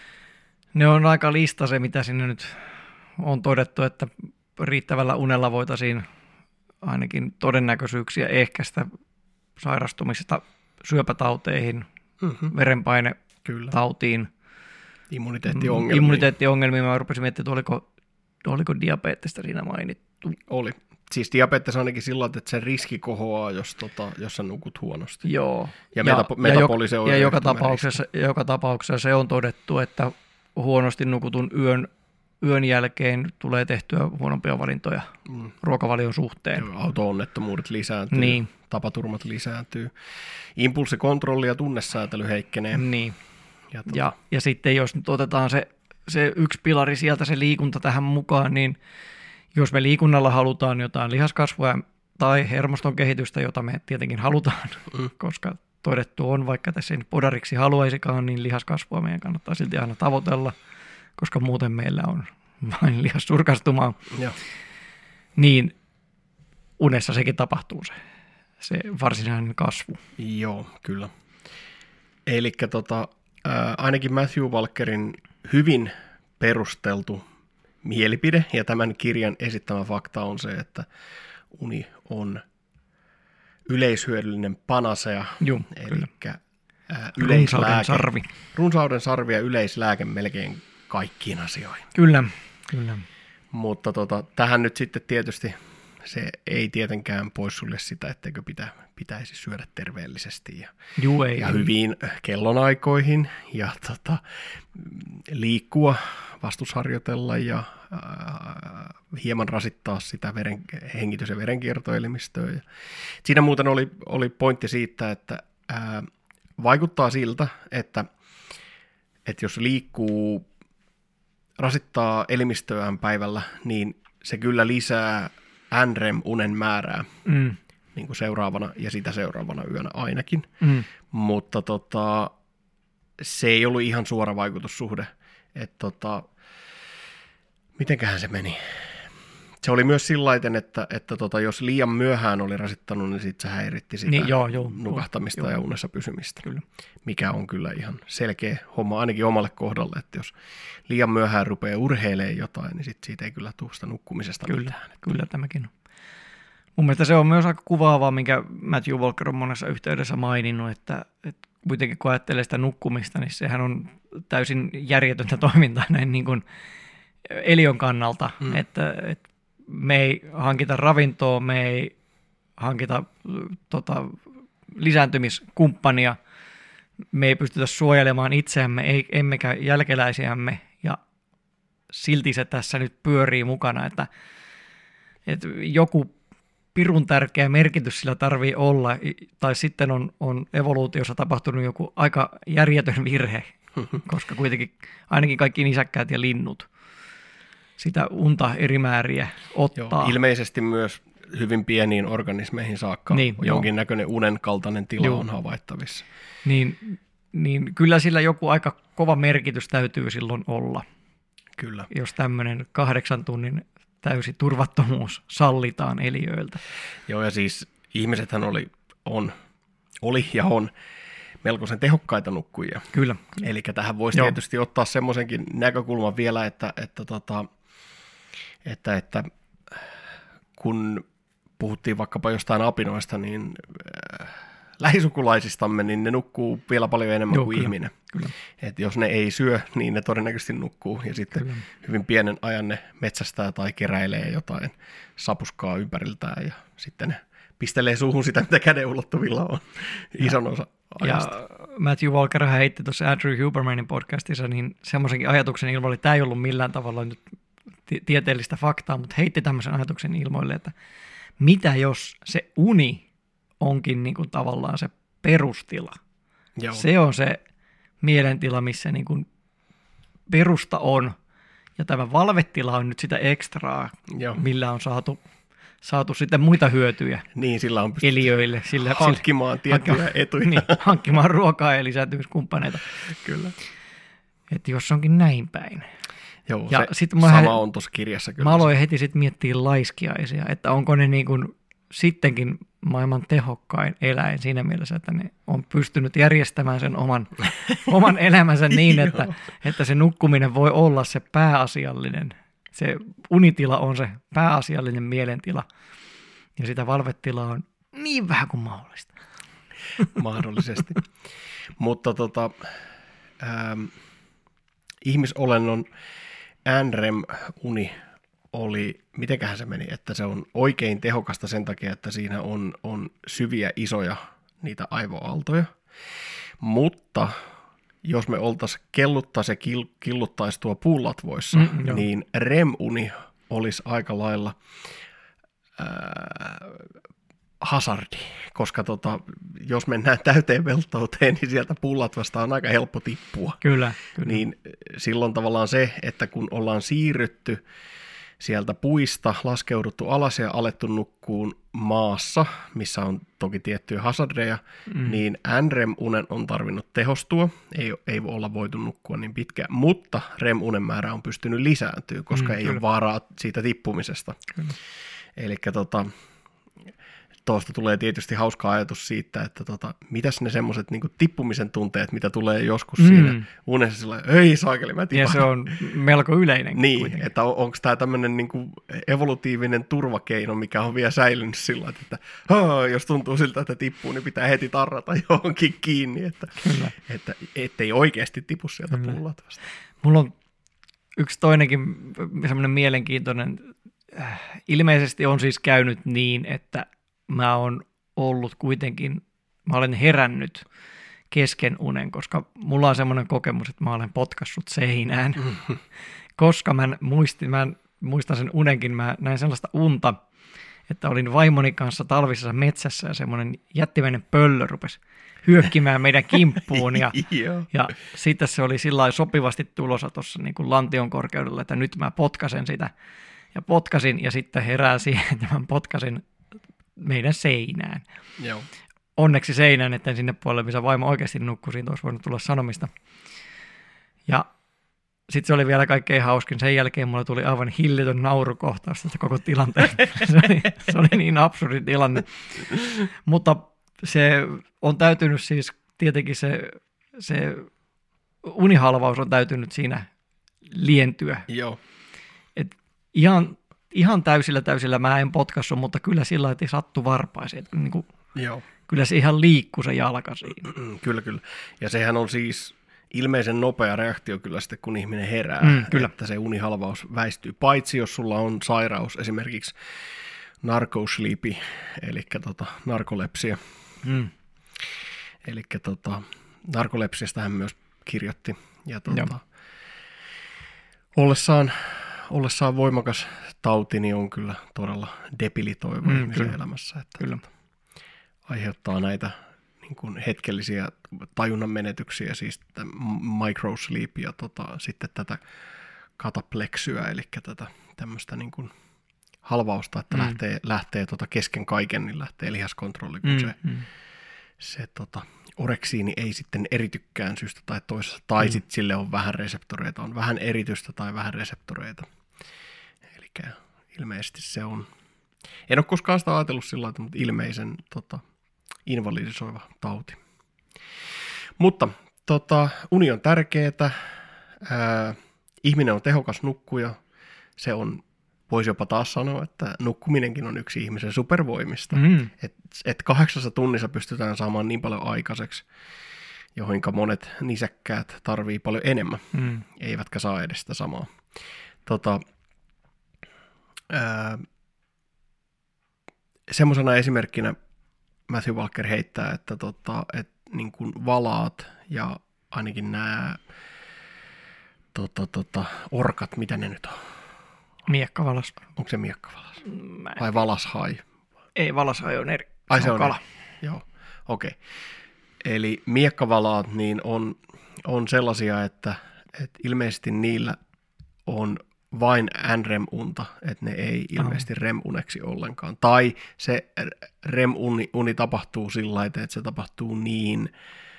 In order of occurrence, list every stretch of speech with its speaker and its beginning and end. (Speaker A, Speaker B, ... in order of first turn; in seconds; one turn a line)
Speaker A: 0.7-6.0
Speaker A: 6.8-8.9
Speaker A: 9.6-11.8
Speaker B: 12.2-12.5
Speaker A: 12.5-13.2
Speaker B: 13.4-13.7
Speaker A: 13.7-14.3
Speaker B: 15.1-16.3
Speaker A: 15.5-17.9
Speaker A: 18.4-20.4
Speaker B: 20.5-25.3
Speaker A: 25.2-31.9
Speaker B: 25.9-28.0
Speaker A: 32.4-35.1
Speaker A: 35.6-36.7
Speaker B: 36.5-39.9
Speaker A: 38.1-38.5
Speaker B: 40.5-42.9
Speaker A: 42.7-43.1
Speaker B: 43.7-44.1
Speaker A: 43.9-48.8
Speaker A: 49.5-60.5
Speaker A: 61.2-64.1
Speaker A: 65.3-65.7
Speaker A: 66.8-67.9
Speaker A: 68.6-70.0
Speaker B: 70.2-71.1
Speaker B: 72.3-77.2
Speaker B: 77.8-80.8
Speaker B: 81.5-82.4
Speaker B: 83.7-91.9
Speaker A: 85.4-86.1
Speaker A: 87.2-88.3
Speaker A: 91.9-93.0
Speaker B: 93.5-100.7
Speaker A: 101.0-101.7
Speaker B: 101.3-104.2
Speaker B: 104.7-112.6
Speaker B: 113.2-118.1
Speaker B: 119.2-120.5
Speaker B: 121.6-127.1
Speaker A: 127.2-127.6
Speaker B: 127.9-132.3
Speaker A: 130.6-130.8
Speaker B: 133.2-136.3
Speaker B: 137.8-138.6
Speaker B: 139.6-146.4
Speaker A: 144.1-145.5
Speaker B: 147.0-150.3
Speaker B: 150.9-155.1
Speaker A: 154.4-155.7
Speaker A: 156.8-166.4
Speaker A: 167.2-171.9
Speaker A: 172.6-176.2
Speaker A: 177.1-181.0
Speaker A: 181.9-184.1
Speaker A: 185.2-186.1
Speaker A: 186.7-193.5
Speaker A: 194.0-196.7
Speaker A: 197.8-200.1
Speaker B: 199.8-206.0
Speaker A: 203.1-203.7
Speaker A: 205.0-205.2
Speaker A: 206.4-210.8
Speaker B: 211.6-211.9
Speaker A: 211.9-216.6
Speaker B: 217.1-219.3
Speaker B: 220.0-220.7
Speaker B: 221.4-227.5
Speaker A: 222.9-223.4
Speaker B: 228.6-229.9
Speaker B: 230.6-231.0
Speaker B: 231.6-237.9
Speaker A: 237.3-238.3
Speaker B: 238.6-251.3
Speaker A: 241.3-241.6
Speaker A: 251.0-257.2
Speaker A: 257.9-260.7
Speaker A: 261.4-263.0
Speaker A: 263.6-266.0
Speaker B: 266.6-266.8
Speaker A: 266.7-267.4
Speaker A: 268.0-269.3
Speaker A: 270.3-271.1
Speaker A: 271.8-275.2
Speaker B: 274.1-274.4
Speaker A: 275.8-277.2
Speaker B: 277.3-281.0
Speaker A: 278.0-282.8
Speaker B: 283.2-283.5
Speaker A: 284.5-285.8
Speaker B: 286.5-288.7
Speaker A: 286.7-287.6
Speaker A: 288.4-305.7
Speaker B: 298.9-299.3
Speaker A: 306.6-309.1
Speaker B: 310.1-311.1
Speaker B: 311.8-312.7
Speaker B: 313.4-313.9
Speaker B: 315.0-315.9
Speaker B: 316.6-317.9
Speaker B: 318.5-325.8
Speaker B: 326.6-327.4
Speaker B: 328.0-334.6
Speaker A: 331.5-332.0
Speaker B: 335.8-336.8
Speaker B: 337.6-347.6
Speaker A: 343.6-344.4
Speaker B: 348.4-364.5
Speaker A: 354.9-355.1
Speaker A: 362.3-362.8
Speaker B: 365.4-366.1
Speaker B: 367.4-375.7
Speaker A: 373.0-373.4
Speaker A: 375.1-377.3
Speaker B: 376.7-389.6
Speaker A: 386.6-386.9
Speaker A: 388.9-389.2
Speaker A: 390.0-390.3
Speaker A: 391.1-400.6
Speaker A: 401.3-405.6
Speaker A: 406.4-410.2
Speaker A: 410.9-422.9
Speaker B: 416.7-417.7
Speaker A: 423.5-426.2
Speaker A: 427.0-428.0
Speaker B: 428.4-428.7
Speaker A: 429.2-432.9
Speaker A: 435.3-447.7
Speaker A: 448.4-450.1
Speaker A: 450.7-451.5
Speaker B: 451.5-451.8
Speaker A: 452.5-458.1
Speaker B: 458.4-458.6
Speaker A: 458.9-460.6
Speaker B: 460.6-469.7
Speaker A: 465.6-466.1
Speaker B: 470.6-473.6
Speaker A: 474.0-474.3
Speaker B: 475.4-479.4
Speaker B: 481.1-487.4
Speaker A: 486.0-486.6
Speaker B: 488.5-495.4
Speaker B: 496.2-498.7
Speaker B: 499.4-503.6
Speaker A: 503.2-503.9
Speaker B: 504.6-512.1
Speaker B: 513.1-514.9
Speaker B: 515.7-518.2
Speaker B: 518.9-520.2
Speaker B: 521.6-523.9
Speaker B: 524.6-527.0
Speaker B: 527.6-535.6
Speaker A: 531.9-532.3
Speaker B: 536.5-541.2
Speaker A: 539.3-539.6
Speaker B: 541.9-542.2
Speaker B: 543.9-544.5
Speaker B: 546.5-547.5
Speaker B: 548.3-553.4
Speaker B: 554.9-557.0
Speaker A: 557.9-558.6
Speaker B: 558.8-559.6
Speaker A: 559.6-560.2
Speaker B: 560.1-561.0
Speaker A: 561.5-563.2
Speaker B: 562.7-564.6
Speaker B: 565.4-570.6
Speaker B: 571.3-580.5
Speaker A: 574.2-574.4